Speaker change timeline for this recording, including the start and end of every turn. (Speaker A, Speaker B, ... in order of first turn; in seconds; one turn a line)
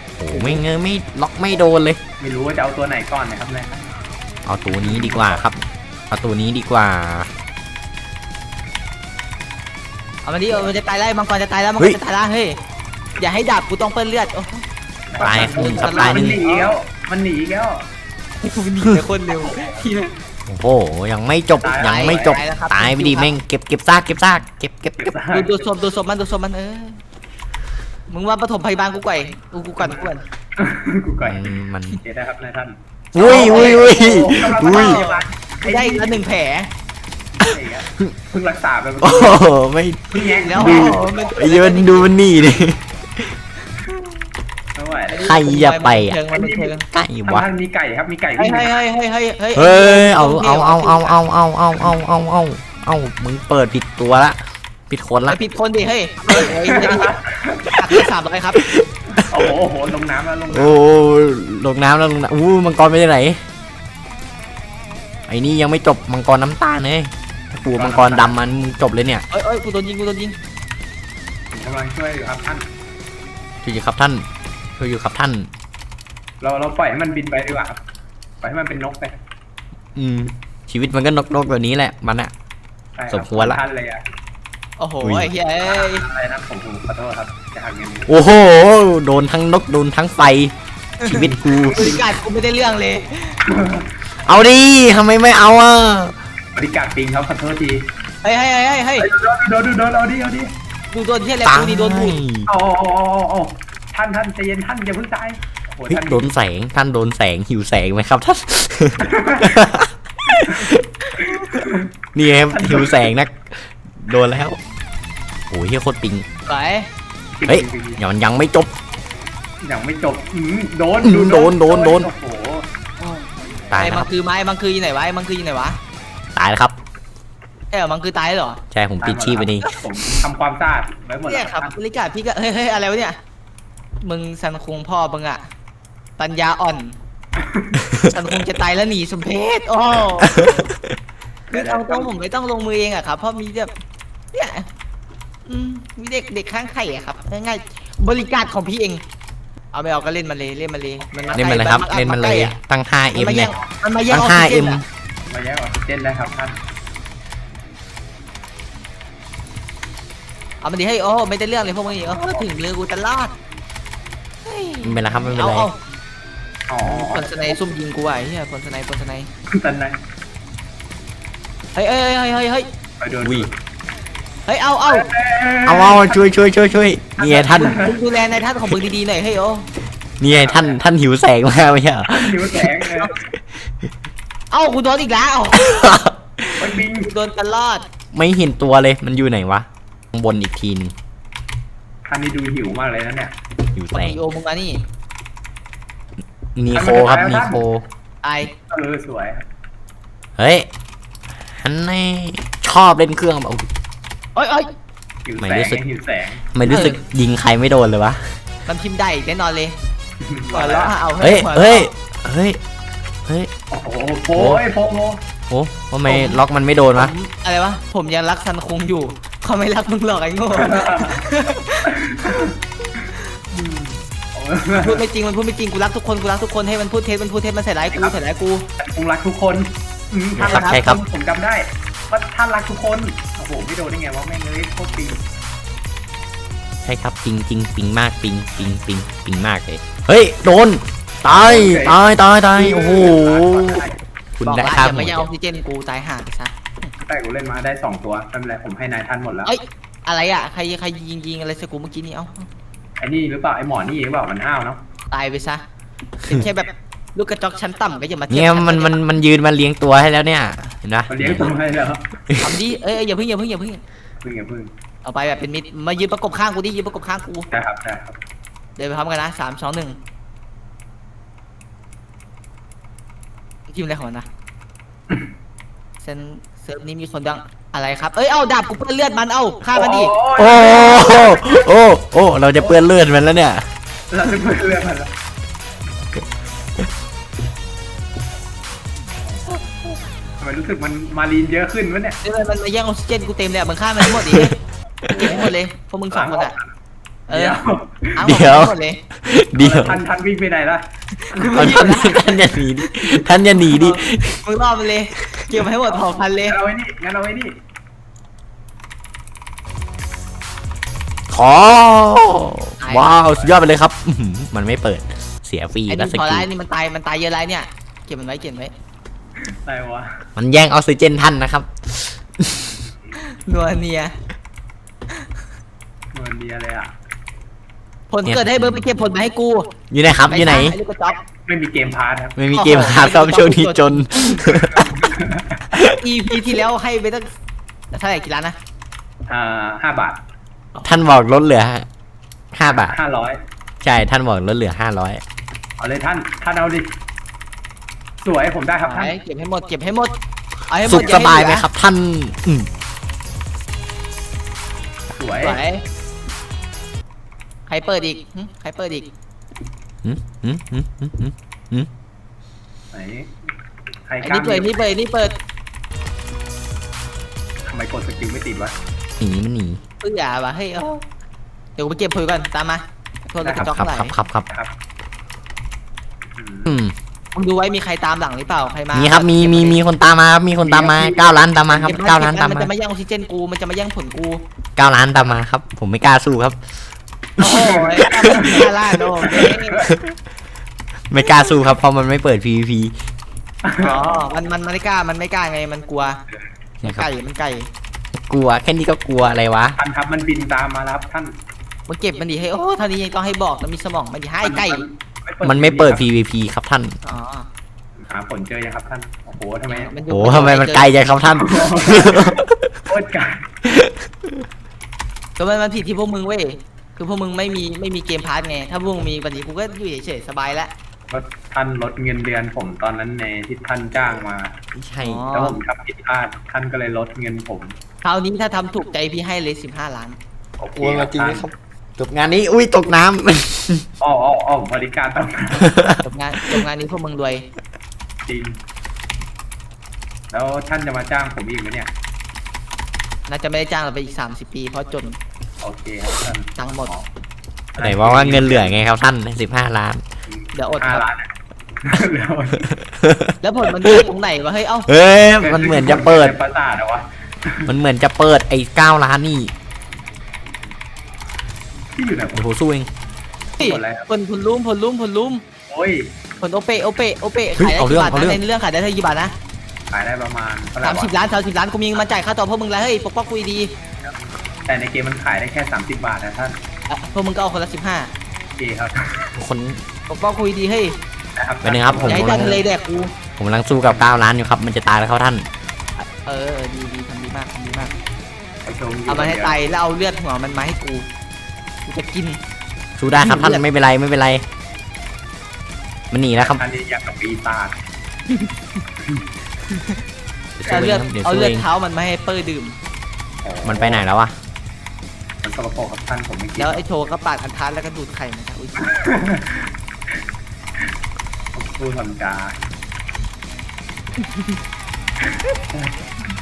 Speaker A: 0.2-2.0
Speaker B: 0.3-0.6
Speaker C: 2.2-3.9
Speaker A: 4.5-7.3
Speaker C: 4.9-5.3
Speaker B: 10.2-12.6
Speaker B: 13.2-14.6
Speaker C: 15.1-17.9
Speaker A: 15.2-16.4
Speaker B: 15.2-16.7
Speaker B: 18.4-20.1
Speaker C: 19.4-19.8
Speaker A: 20.5-25.1
Speaker C: 21.6-22.4
Speaker B: 21.8-23.3
Speaker C: 25.0-25.6
Speaker B: 25.3-27.0
Speaker B: 28.1-30.2
Speaker C: 29.8-36.2
Speaker A: 31.2-32.0
Speaker A: 33.1-35.0
Speaker B: 33.2-36.7
Speaker C: 37.4-39.5
Speaker A: 39.0-43.3
Speaker C: 40.1-41.0
Speaker B: 40.4-42.1
Speaker C: 44.8-45.3
Speaker B: 45.1-46.8
Speaker A: 45.2-46.2
Speaker C: 46.3-48.8
Speaker A: 46.9-47.5
Speaker B: 48.4-51.2
Speaker A: 49.5-55.4
Speaker B: 55.3-57.1
Speaker C: 56.4-57.7
Speaker B: 57.8-58.6
Speaker A: 58.7-59.5
Speaker C: 59.2-60.8
Speaker A: 60.5-63.4
Speaker A: 65.3-69.2
Speaker C: 67.7-68.3
Speaker B: 69.3-70.4
Speaker C: 71.5-72.7
Speaker A: 73.6-74.3
Speaker A: 74.8-75.5
Speaker C: 76.4-77.8
Speaker C: 78.4-79.2
Speaker A: 80.0-82.3
Speaker C: 83.0-84.0
Speaker A: 83.1-83.6
Speaker B: 84.8-86.0
Speaker A: 85.0-85.3
Speaker C: 85.6-88.1
Speaker A: 88.1-90.5
Speaker B: 91.0-93.4
Speaker A: 91.0-92.0
Speaker C: 91.5-92.0
Speaker C: 93.5-93.9
Speaker A: 94.2-96.2
Speaker C: 96.5-97.8
Speaker B: 98.2-99.1
Speaker C: 99.0-100.5
Speaker B: 100.9-102.2
Speaker A: 101.5-102.5
Speaker C: 102.5-106.3
Speaker A: 105.9-110.8
Speaker C: 109.0-109.6
Speaker C: 111.2-111.9
Speaker A: 112.2-114.6
Speaker C: 112.5-113.1
Speaker A: 115.5-116.3
Speaker B: 116.5-116.9
Speaker C: 117.4-118.0
Speaker A: 117.5-118.7
Speaker C: 119.6-122.7
Speaker A: 121.0-122.1
Speaker B: 123.0-125.8
Speaker A: 123.7-124.1
Speaker A: 126.4-126.8
Speaker B: 127.7-128.6
Speaker A: 128.7-129.7
Speaker C: 129.0-131.7
Speaker B: 131.2-133.2
Speaker B: 134.0-135.4
Speaker B: 136.2-137.0
Speaker C: 137.4-137.8
Speaker B: 138.1-140.7
Speaker A: 140.3-140.7
Speaker B: 141.5-143.7
Speaker C: 141.5-142.1
Speaker B: 144.3-144.7
Speaker B: 145.5-149.0
Speaker B: 149.7-152.6
Speaker A: 151.3-153.6
Speaker B: 153.1-154.8
Speaker A: 154.1-154.8
Speaker C: 155.3-156.6
Speaker B: 160.6-163.3
Speaker B: 164.4-165.8
Speaker A: 164.8-165.7
Speaker C: 166.7-167.5
Speaker B: 166.8-169.3
Speaker C: 169.5-170.0
Speaker B: 171.8-172.7
Speaker C: 173.0-173.5
Speaker A: 173.2-173.5
Speaker B: 174.5-175.1
Speaker C: 174.9-176.3
Speaker A: 175.7-177.8
Speaker C: 177.2-178.0
Speaker B: 177.6-179.7
Speaker A: 180.2-182.7
Speaker C: 180.3-180.8
Speaker C: 182.1-183.2
Speaker B: 184.5-185.9
Speaker A: 185.6-186.5
Speaker C: 186.6-187.1
Speaker B: 187.0-187.9
Speaker A: 188.1-190.9
Speaker C: 192.1-193.3
Speaker A: 193.8-194.2
Speaker B: 193.9-194.8
Speaker A: 196.6-197.8
Speaker C: 196.7-197.7
Speaker B: 198.2-198.5
Speaker C: 198.7-199.4
Speaker A: 200.4-200.7
Speaker A: 201.6-203.7
Speaker B: 204.3-204.7
Speaker C: 205.3-206.8
Speaker A: 205.4-205.8
Speaker A: 206.5-208.3
Speaker B: 206.7-207.0
Speaker B: 208.7-209.8
Speaker C: 210.2-210.9
Speaker B: 210.5-211.9
Speaker A: 211.2-212.6
Speaker C: 213.7-215.2
Speaker A: 214.3-214.6
Speaker A: 215.5-217.1
Speaker B: 216.1-216.4
Speaker B: 217.0-222.5
Speaker C: 220.5-221.2
Speaker C: 221.9-222.5
Speaker C: 223.5-225.0
Speaker B: 224.8-228.7
Speaker C: 227.9-228.2
Speaker C: 228.8-235.2
Speaker A: 230.4-231.0
Speaker B: 230.4-230.8
Speaker A: 236.8-245.3
Speaker C: 241.3-242.0
Speaker C: 242.5-244.0
Speaker B: 244.4-246.9
Speaker C: 247.0-249.5
Speaker B: 249.4-252.5
Speaker C: 253.0-254.8
Speaker B: 255.1-255.6
Speaker B: 256.3-259.0
Speaker A: 258.3-261.5
Speaker C: 261.1-262.0
Speaker A: 262.3-262.6
Speaker B: 262.4-263.8
Speaker C: 264.2-264.7
Speaker B: 265.0-267.5
Speaker C: 267.5-268.2
Speaker B: 268.8-270.0
Speaker B: 273.7-274.3
Speaker B: 276.0-280.1
Speaker C: 279.7-281.6
Speaker A: 280.4-283.6
Speaker C: 284.1-285.1
Speaker C: 290.4-292.2
Speaker B: 292.2-294.6
Speaker A: 294.1-294.5
Speaker A: 295.1-295.4
Speaker B: 295.1-296.5
Speaker C: 296.1-296.7
Speaker B: 297.3-297.6
Speaker C: 297.3-298.3
Speaker B: 298.2-299.0
Speaker A: 298.2-300.0
Speaker C: 299.5-300.9
Speaker B: 301.2-302.6
Speaker C: 301.4-301.7
Speaker A: 301.5-304.4
Speaker B: 303.6-306.6
Speaker C: 305.9-307.6
Speaker A: 311.3-316.5
Speaker B: 312.8-313.2
Speaker C: 313.3-313.6
Speaker B: 315.9-318.7
Speaker C: 319.6-320.1
Speaker A: 320.4-322.8
Speaker B: 323.2-324.1
Speaker C: 326.1-326.9
Speaker B: 328.1-329.7
Speaker A: 328.2-328.9
Speaker A: 329.9-330.8
Speaker B: 330.3-331.2
Speaker C: 331.5-332.4
Speaker A: 332.4-335.1
Speaker B: 332.5-334.5
Speaker C: 334.8-335.6
Speaker B: 335.8-337.3
Speaker B: 337.9-338.6
Speaker C: 339.3-340.2
Speaker B: 340.7-341.0
Speaker A: 340.9-341.9
Speaker A: 342.5-342.9
Speaker C: 342.7-343.4
Speaker A: 343.8-345.2
Speaker C: 345.8-346.9
Speaker C: 348.2-349.2
Speaker B: 348.9-350.1
Speaker B: 350.7-351.7
Speaker A: 350.9-352.7
Speaker C: 355.2-355.6
Speaker B: 355.4-355.8
Speaker B: 357.7-359.1
Speaker A: 360.0-361.9
Speaker C: 362.9-363.3
Speaker C: 364.1-364.8
Speaker B: 364.2-365.4
Speaker C: 367.7-368.8
Speaker A: 369.2-369.8
Speaker B: 370.0-371.1
Speaker B: 371.8-374.1
Speaker C: 373.4-373.7
Speaker A: 373.6-374.5
Speaker C: 376.4-376.8
Speaker A: 376.7-376.9
Speaker B: 377.3-379.8
Speaker A: 378.9-382.7
Speaker C: 380.6-381.4
Speaker B: 381.7-384.4
Speaker A: 384.8-386.6
Speaker A: 387.4-388.7
Speaker B: 387.4-389.9
Speaker C: 387.4-388.7
Speaker C: 389.2-389.9
Speaker A: 391.1-392.9
Speaker C: 393.6-394.3
Speaker B: 393.8-396.2
Speaker B: 396.8-397.7
Speaker A: 398.3-399.8
Speaker C: 399.8-401.3
Speaker B: 401.9-404.8
Speaker C: 404.4-406.1
Speaker A: 405.4-407.0
Speaker B: 407.0-407.5
Speaker C: 408.0-410.0
Speaker B: 409.7-410.9
Speaker A: 410.1-412.7
Speaker C: 411.4-413.4
Speaker A: 413.6-413.9
Speaker B: 415.4-420.7
Speaker C: 421.1-424.6
Speaker A: 424.8-425.3
Speaker B: 425.0-425.6
Speaker C: 425.3-427.8
Speaker B: 428.0-430.2
Speaker C: 430.6-431.5
Speaker A: 430.6-433.9
Speaker C: 434.0-435.7
Speaker A: 435.7-436.0
Speaker B: 436.0-437.5
Speaker C: 438.3-438.6
Speaker C: 440.3-441.9
Speaker B: 443.3-445.2
Speaker C: 445.6-447.1
Speaker B: 446.6-446.9
Speaker C: 447.8-448.8
Speaker A: 447.8-450.0
Speaker C: 450.3-451.3
Speaker B: 450.5-451.0
Speaker C: 451.8-452.7
Speaker A: 452.7-454.0
Speaker B: 453.4-454.9
Speaker A: 454.9-456.4
Speaker C: 455.4-457.7
Speaker A: 457.7-459.5
Speaker C: 462.0-462.5
Speaker A: 462.4-462.9
Speaker C: 463.6-464.1
Speaker B: 463.6-465.4
Speaker C: 465.7-466.1
Speaker B: 466.4-469.3
Speaker A: 467.6-468.4
Speaker C: 469.9-471.1
Speaker B: 470.8-473.7
Speaker C: 474.7-476.6
Speaker B: 476.9-478.1
Speaker C: 478.6-479.3
Speaker A: 479.4-479.8
Speaker B: 480.1-481.0
Speaker C: 481.4-482.6
Speaker A: 481.6-482.6
Speaker B: 482.1-483.1
Speaker A: 483.4-485.5
Speaker B: 486.0-487.9
Speaker C: 488.6-489.6
Speaker B: 489.1-491.1
Speaker B: 491.9-492.4
Speaker A: 493.0-494.4
Speaker B: 493.1-493.6
Speaker A: 496.1-496.6
Speaker C: 496.4-497.8
Speaker B: 499.7-500.0
Speaker A: 500.6-501.7
Speaker B: 500.6-502.8
Speaker C: 503.4-504.1
Speaker A: 503.6-504.3
Speaker C: 505.4-506.8
Speaker B: 506.6-508.9
Speaker C: 508.8-509.7
Speaker C: 511.5-512.6
Speaker B: 514.2-514.6
Speaker C: 515.7-516.0